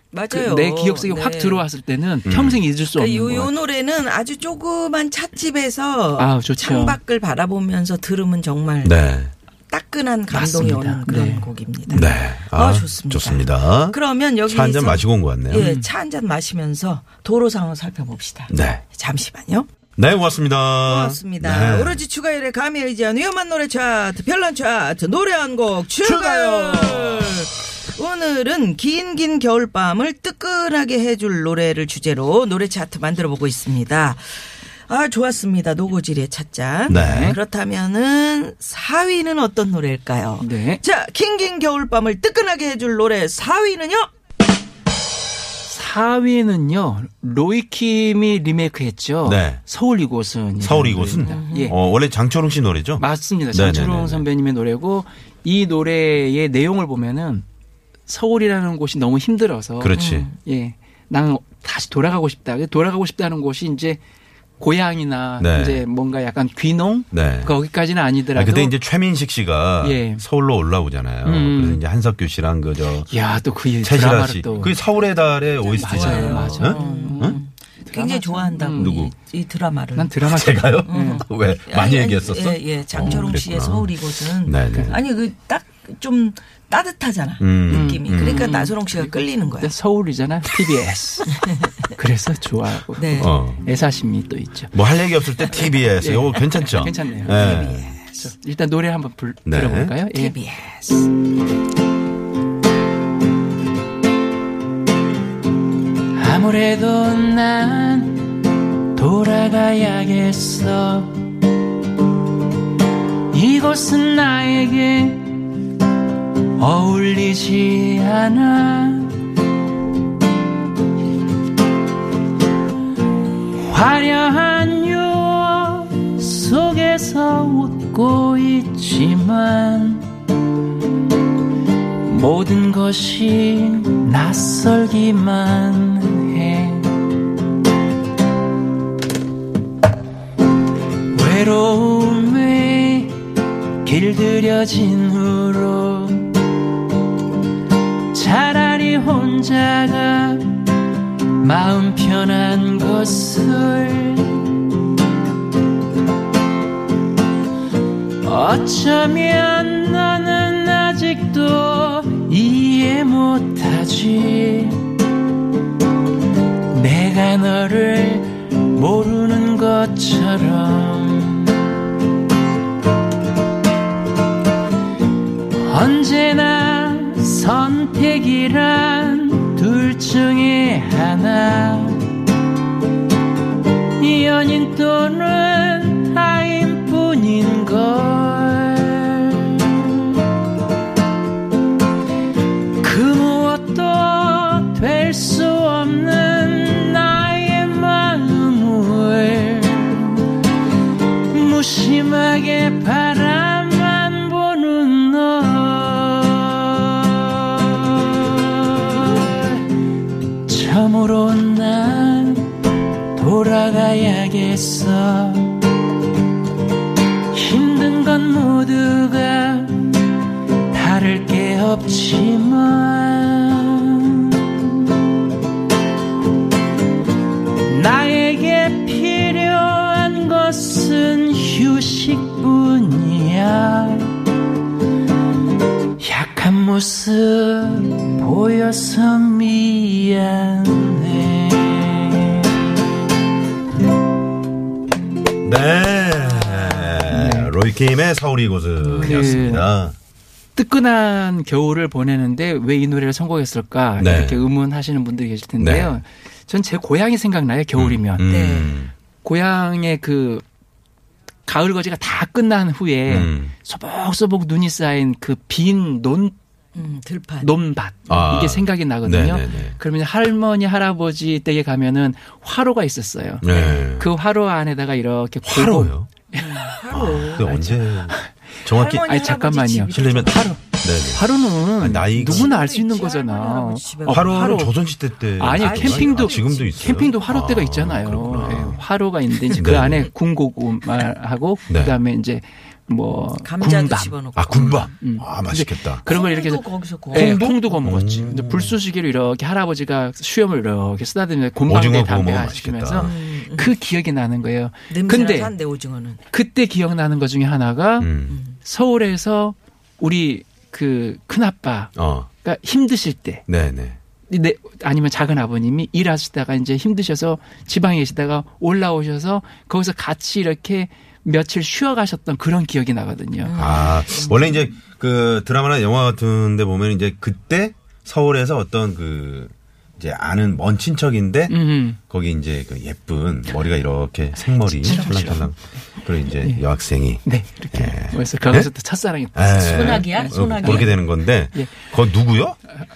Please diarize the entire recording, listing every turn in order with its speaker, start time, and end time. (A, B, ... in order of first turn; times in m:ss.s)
0:00.1-0:01.6 A
0:00.3-0:03.5 B
0:02.3-0:02.6 C
0:02.3-0:09.0 A
0:06.2-0:07.0 B
0:08.8-0:09.3 C
0:09.7-0:19.7 A
0:10.3-0:11.5 B
0:11.9-0:15.7 C
0:15.6-0:15.9 B
0:18.5-0:18.8 C
0:20.0-0:22.0 C
0:20.8-0:44.1 A
0:26.0-0:27.5 C
0:36.9-0:37.4 B
0:36.9-0:37.4 C
0:40.4-0:40.8 B
0:45.7-0:51.8 B
0:49.2-0:49.6 C
0:50.6-0:54.2 C
0:51.2-0:51.8 A
0:53.0-0:57.4 B
0:58.1-1:04.0 B
0:59.8-1:00.3 C
0:59.9-1:00.4 A
1:04.6-1:08.8 B
1:05.4-1:05.8 C
1:07.1-1:07.6 C
1:08.3-1:13.1 C
1:09.8-1:10.2 B
1:11.2-1:11.8 B
1:13.1-1:14.8 B
1:13.8-1:17.4 C
1:15.7-1:20.2 A
1:15.8-1:19.0 B
1:18.8-1:19.1 C
1:20.0-1:21.2 B
1:20.2-1:25.0 C
1:20.8-1:29.7 A
1:24.7-1:25.0 B
1:27.4-1:28.5 C
1:27.7-1:34.8 B
1:31.3-1:31.7 A
1:33.0-1:33.3 A
1:33.2-1:33.6 C
1:34.7-1:38.0 C
1:36.0-1:37.6 B
1:37.2-1:38.1 A
1:38.1-1:40.4 B
1:39.5-1:40.0 C
1:40.1-1:41.1 A
1:46.1-1:48.4 B
1:48.9-1:51.2 B
1:53.3-1:55.5 B
1:56.6-1:59.3 B
2:03.5-2:10.1 B
2:12.0-2:17.0 B
2:21.1-2:23.2 B
2:23.8-2:26.4 B
2:28.1-2:30.6 B
2:31.4-2:34.5 B
2:38.2-2:44.9 B
2:46.7-2:51.6 B
2:55.5-3:02.1 B
3:04.0-3:10.2 B
3:12.8-3:20.4 B
3:21.3-3:29.6 B
3:30.4-3:32.6 B
3:33.1-3:35.7 B
3:37.3-3:40.0 B
3:40.7-3:44.8 B
3:47.6-3:54.2 B
3:56.0-4:02.5 B
4:05.4-4:10.0 C
4:07.0-4:07.6 B
4:08.8-4:09.7 B
4:10.6-4:18.3 B
4:14.0-4:14.4 C
4:15.6-4:16.0 C
4:17.8-4:18.9 C
4:18.3-4:18.8 A
4:19.2-4:20.4 B
4:21.5-4:26.4 B
4:23.1-4:23.5 C
4:26.8-4:27.5 A
4:27.4-4:36.7 B
4:28.1-4:29.8 C
4:33.4-4:34.1 C
4:35.4-4:36.1 C
4:36.3-4:37.8 A
4:36.9-4:39.2 C
4:37.7-4:38.3 B
4:38.7-4:40.5 A
4:39.0-4:44.8 B
4:39.9-4:42.5 C
4:42.2-4:44.6 A
4:44.1-4:48.8 C
4:45.4-4:54.2 B
4:45.5-4:46.7 A
4:49.6-4:50.1 C
4:51.7-4:52.0 C
4:53.4-4:54.9 A
4:54.4-4:56.1 C
4:55.0-5:05.5 B
4:56.1-4:57.5 A
4:57.1-4:58.8 C
5:01.7-5:03.1 C
5:02.9-5:03.8 A
5:04.9-5:06.2 A
5:06.3-5:13.4 B
5:08.0-5:08.4 C
5:08.3-5:08.6 A
5:12.0-5:12.3 C
5:13.5-5:14.0 C
5:14.3-5:23.6 B
5:23.4-5:24.7 A
5:23.6-5:38.7 C
5:31.5-5:32.0 B
5:34.4-5:35.5 B
5:36.3-5:36.6 B
5:37.2-5:41.8 B
5:39.3-5:42.6 C
5:39.6-5:40.9 A